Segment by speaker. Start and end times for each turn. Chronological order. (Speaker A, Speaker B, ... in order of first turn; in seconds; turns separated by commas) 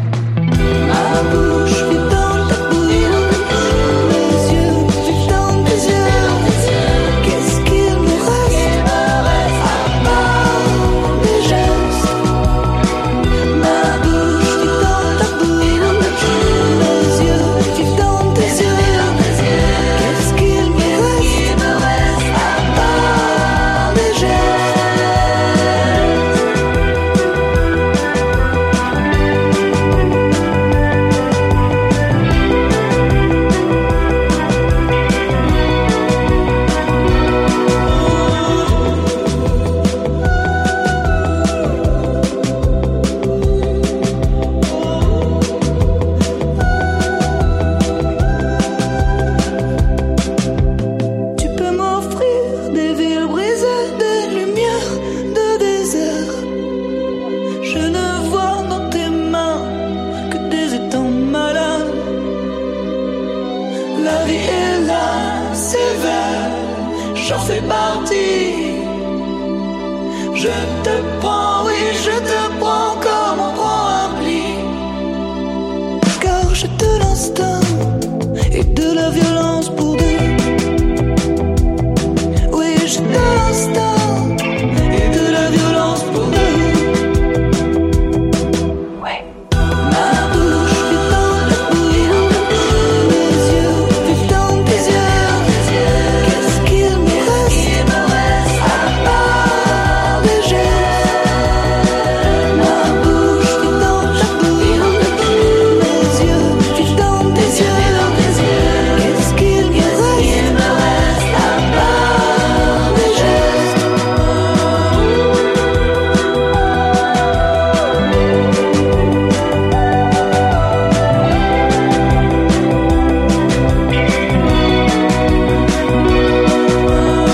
Speaker A: 0.8-12.2, Speaker A: 13.5-26.2, Speaker A: 51.4-56.5, Speaker A: 57.6-62.2, Speaker A: 63.9-69.1, Speaker A: 70.3-74.8, Speaker A: 76.1-80.6, Speaker A: 82.5-87.1, Speaker A: 89.8-113.8